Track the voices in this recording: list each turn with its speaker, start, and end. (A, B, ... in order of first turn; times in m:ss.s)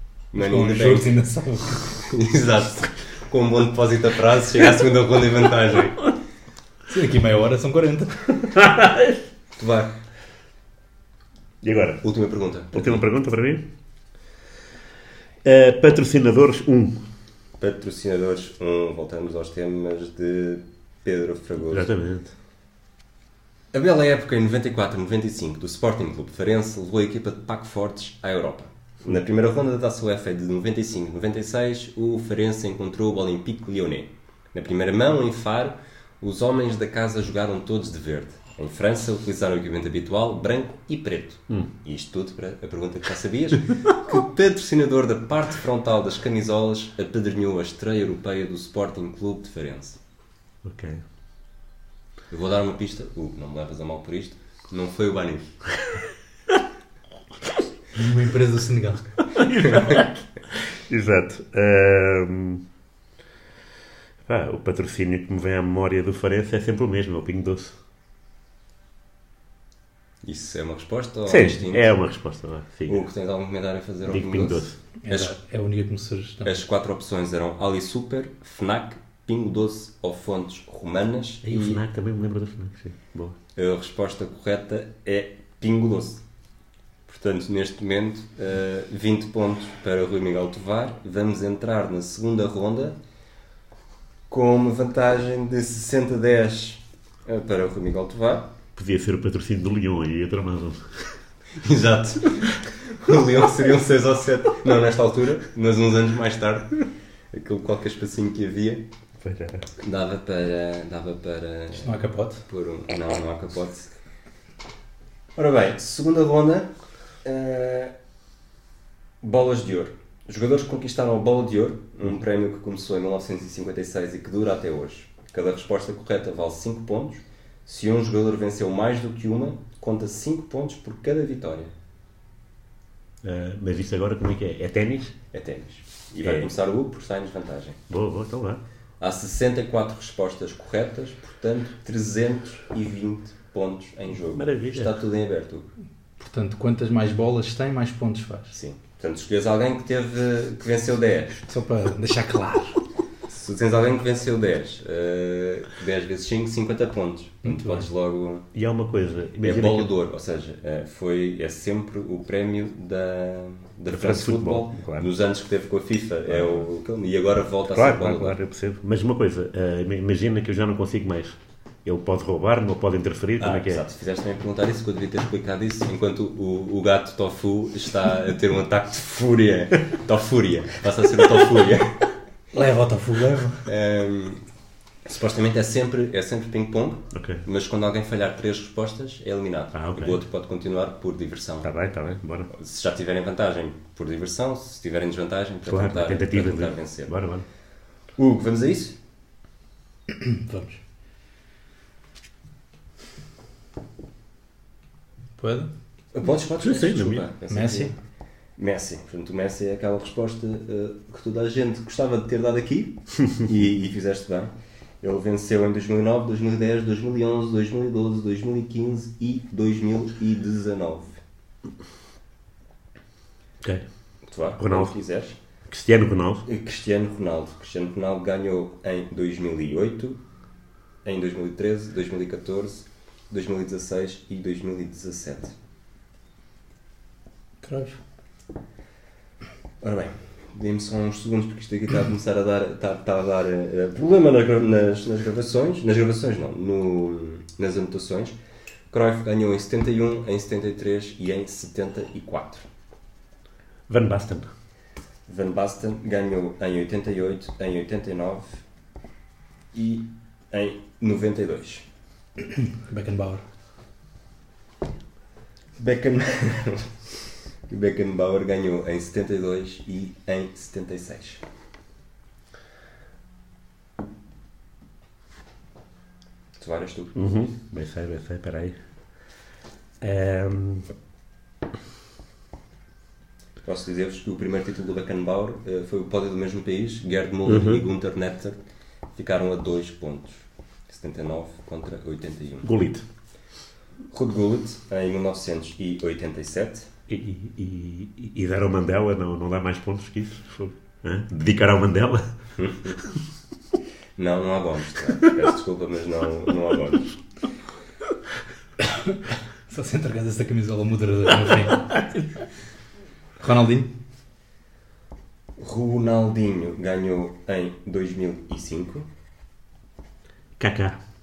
0:00.3-0:01.2 A
0:00.3-0:02.0 B
0:01.8-0:06.1 A
0:06.9-0:08.5 B
0:08.5-0:09.2 C
0:09.6-0:09.9 A
0:11.6-0:12.0 C
0:12.0-0:13.0 A
0:12.7-0:13.6 C
0:15.4-0:17.0 C
0:17.6-0:21.9 A
0:21.7-0:22.3 C
0:23.7-0:50.0 A
0:50.6-0:51.0 C
0:52.3-0:55.5 A
0:57.9-0:59.0 B
0:59.3-1:02.6 C
1:04.2-1:07.8 C
1:10.2-1:11.9 A
1:11.3-1:13.0 C
1:12.9-1:15.3 A
1:14.1-1:14.8 C
1:15.0-1:16.6 B
1:16.4-1:21.8 A
1:21.4-1:23.4 C
1:23.5-1:26.2 A
1:27.1-1:33.0 A
1:34.3-1:38.5 A
1:38.8-1:41.2 C
1:41.6-1:48.8 A
1:49.2-1:49.7 C
1:49.8-1:53.9 A
1:51.7-1:52.4 B
1:55.4-1:56.7 A
1:57.2-1:57.9 A
1:59.2-2:11.7 A
2:13.2-2:15.2 C
2:15.3-2:17.8 A
2:16.2-2:16.5 C
2:17.9-2:18.6 C
2:19.0-2:25.7 A
2:24.3-2:24.9 C
2:26.2-2:28.6 B
2:28.5-2:31.4 A
2:31.5-2:32.8 B
2:33.3-2:38.5 A
2:37.4-2:37.9 B
2:38.5-2:39.9 C
2:39.4-2:48.4 A
2:43.9-2:45.1 C
2:47.7-2:53.8 C
2:53.4-3:02.1 A
3:02.5-3:03.7 B
3:03.6-3:04.4 A
3:05.0-3:11.7 A
3:07.1-3:07.4 C
3:09.7-3:10.2 C
3:11.6-3:12.5 C
3:12.5-3:17.1 A
3:15.7-3:17.4 C
3:18.2-3:19.0 A
3:20.1-3:20.8 B
3:25.4-3:25.7 B
3:26.1-3:27.9 A
3:26.6-3:27.2 C
3:27.5-3:27.9 B
3:28.6-3:41.2 A
3:44.2-3:45.4 A
3:44.6-3:45.0 C
3:45.7-3:46.4 C
3:46.4-3:50.2 A
3:51.0-3:55.5 A
3:57.6-3:58.0 B
3:59.8-4:08.4 A
4:08.9-4:12.6 A
4:13.9-4:14.5 C
4:15.3-4:18.6 A
4:19.7-4:21.8 A
4:22.6-4:23.4 B
4:25.8-4:27.1 A
4:27.7-4:31.4 A
4:36.6-4:37.4 A
4:37.1-4:38.8 C
4:40.0-4:40.9 C
4:43.6-4:48.6 A
4:47.4-4:47.8 C
4:49.1-4:52.7 A
4:52.6-4:53.0 C
4:54.1-4:56.9 A
4:57.1-5:02.3 C
5:02.6-5:03.0 A
5:04.2-5:07.1 A
5:08.8-5:11.9 B
5:13.4-5:13.9 B
5:15.6-5:19.1 A
5:20.6-5:21.0 C